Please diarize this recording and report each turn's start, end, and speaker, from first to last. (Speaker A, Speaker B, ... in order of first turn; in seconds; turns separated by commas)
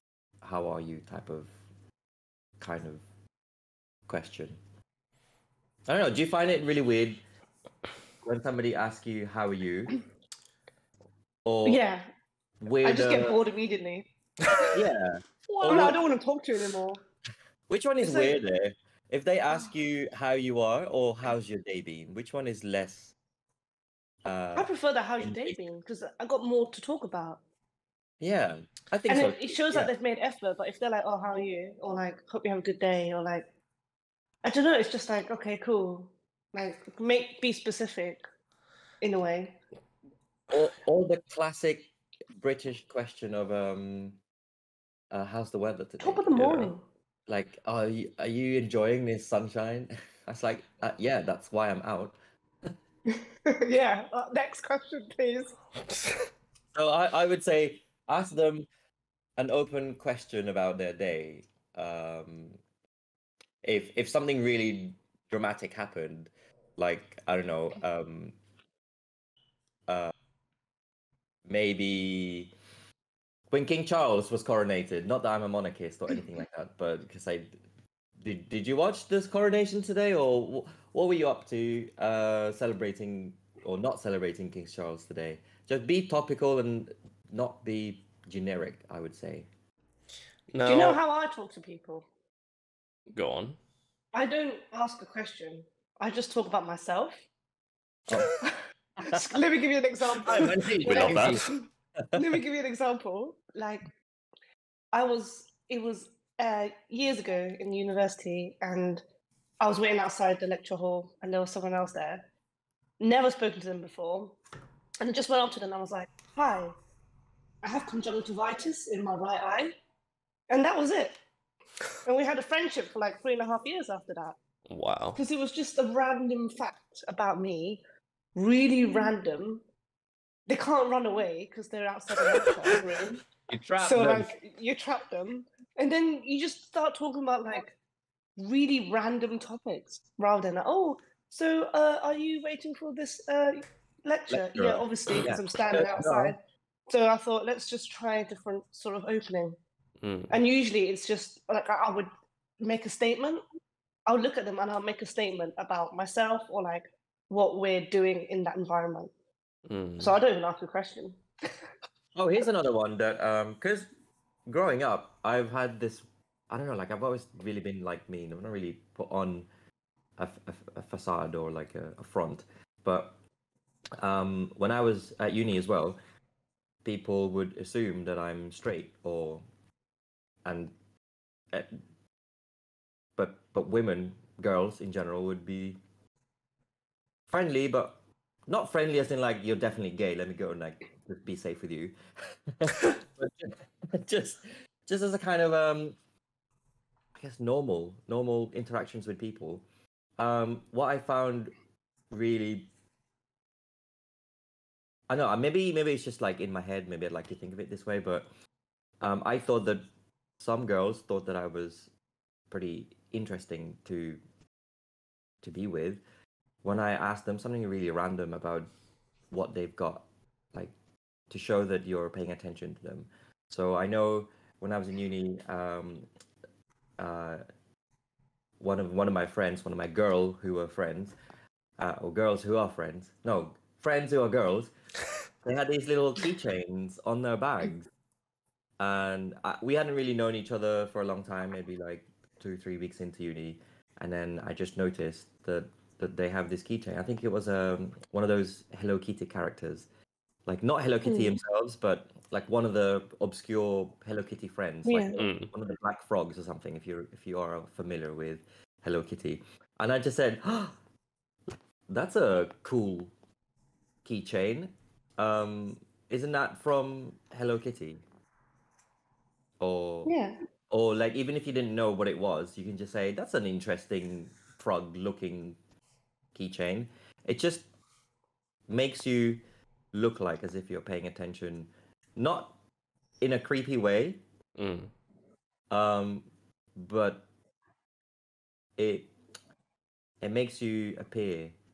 Speaker A: 0.4-1.6, Speaker A: 2.6-3.0, Speaker A: 4.1-4.6, Speaker A: 5.9-7.2, Speaker A: 8.2-10.0, Speaker A: 11.4-11.8, Speaker B: 11.7-12.1, Speaker A: 12.6-13.4, Speaker B: 12.8-14.8, Speaker A: 14.7-16.0, Speaker B: 15.5-17.0, Speaker A: 17.7-23.1, Speaker B: 18.0-18.4, Speaker A: 24.2-25.6, Speaker B: 24.6-27.4, Speaker A: 28.2-29.9, Speaker B: 29.1-33.5, Speaker B: 34.4-38.2, Speaker B: 39.0-39.6, Speaker A: 40.5-44.2, Speaker A: 45.1-46.3, Speaker B: 46.0-46.8, Speaker C: 46.4-46.7, Speaker A: 47.3-52.7, Speaker B: 53.2-55.6, Speaker C: 55.8-56.3, Speaker A: 56.7-58.7, Speaker A: 59.4-62.6, Speaker A: 63.6-68.4, Speaker A: 69.9-70.1, Speaker A: 71.5-72.5, Speaker A: 73.5-77.6, Speaker A: 78.2-89.5, Speaker C: 90.5-91.0, Speaker B: 90.7-92.1, Speaker C: 93.1-93.6, Speaker B: 94.1-97.2, Speaker B: 98.4-101.6, Speaker A: 100.3-101.5, Speaker C: 100.8-101.5, Speaker A: 102.0-102.2, Speaker B: 102.2-103.9, Speaker B: 104.9-109.0, Speaker B: 109.6-112.3, Speaker B: 113.0-114.4, Speaker B: 115.0-116.8, Speaker B: 117.6-119.7, Speaker B: 120.5-121.2, Speaker B: 122.0-124.4, Speaker C: 124.7-125.2, Speaker B: 125.2-127.8, Speaker B: 128.3-129.6, Speaker B: 130.5-133.2, Speaker A: 133.5-134.3, Speaker B: 133.8-137.8, Speaker B: 138.4-149.6, Speaker A: 144.3-146.3, Speaker C: 150.0-150.4, Speaker B: 150.3-152.1, Speaker B: 152.6-153.4, Speaker B: 154.1-159.1, Speaker C: 159.7-160.2, Speaker B: 160.0-161.2, Speaker A: 162.1-163.9, Speaker A: 164.5-169.5, Speaker A: 170.2-173.2, Speaker A: 174.0-176.0, Speaker A: 176.8-179.4, Speaker A: 180.4-180.7, Speaker A: 181.5-181.8, Speaker A: 183.2-185.8, Speaker A: 187.3-196.0, Speaker A: 197.2-199.6, Speaker A: 200.2-201.5, Speaker A: 202.1-202.7, Speaker A: 205.1-208.3, Speaker A: 209.0-209.9, Speaker A: 210.4-211.9, Speaker A: 212.5-214.2, Speaker A: 215.4-216.0, Speaker A: 216.6-218.7, Speaker A: 219.3-220.7, Speaker A: 221.3-226.1, Speaker A: 227.0-227.4, Speaker A: 228.6-231.2, Speaker A: 231.8-234.7, Speaker A: 235.4-237.9, Speaker A: 238.8-249.9, Speaker A: 250.5-260.8, Speaker B: 251.0-251.4, Speaker B: 254.9-255.2, Speaker C: 255.2-255.5, Speaker A: 261.9-263.1, Speaker A: 264.0-268.1, Speaker A: 269.6-270.1, Speaker B: 270.1-270.4, Speaker A: 270.7-275.6, Speaker A: 276.3-277.7, Speaker A: 278.7-282.6, Speaker A: 283.2-284.2, Speaker C: 284.6-284.9, Speaker A: 285.7-287.3, Speaker A: 288.8-289.1, Speaker A: 290.2-291.6